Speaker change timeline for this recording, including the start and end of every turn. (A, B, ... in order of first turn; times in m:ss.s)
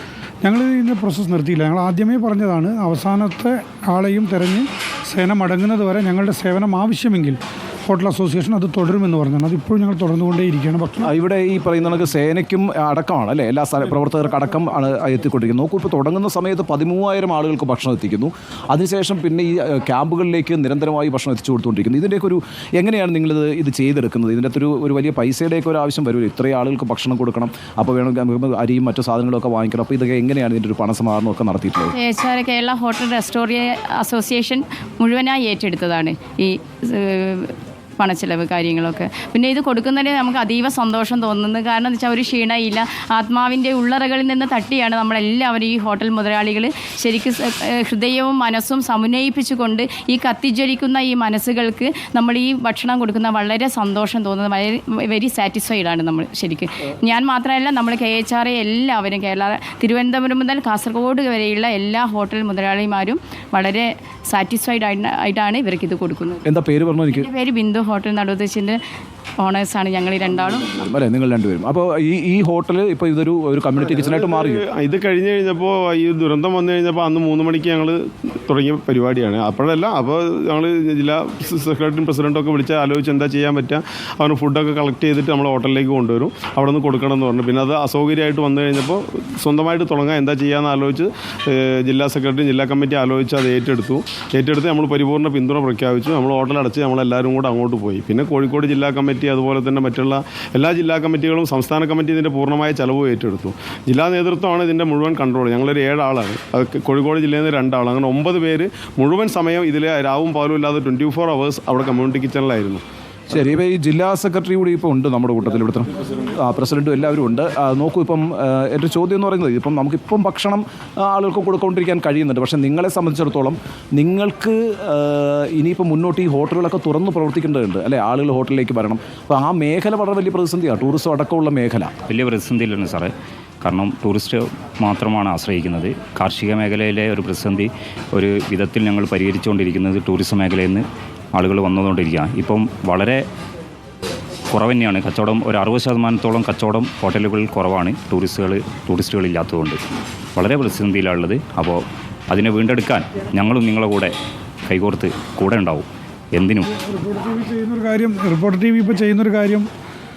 0:00.4-0:11.1 A
0:11.0-0:31.9 B
0:31.9-1:06.4 C
1:06.5-1:07.3 B
1:07.1-1:08.8 C
1:09.4-1:10.7 C
1:10.8-1:14.6 B
1:14.2-1:52.8 D
1:53.3-2:11.9 B
2:12.1-2:23.2 E
2:24.5-2:29.8 E
2:30.4-2:34.1 E
2:34.7-2:36.7 E
2:36.7-2:39.7 A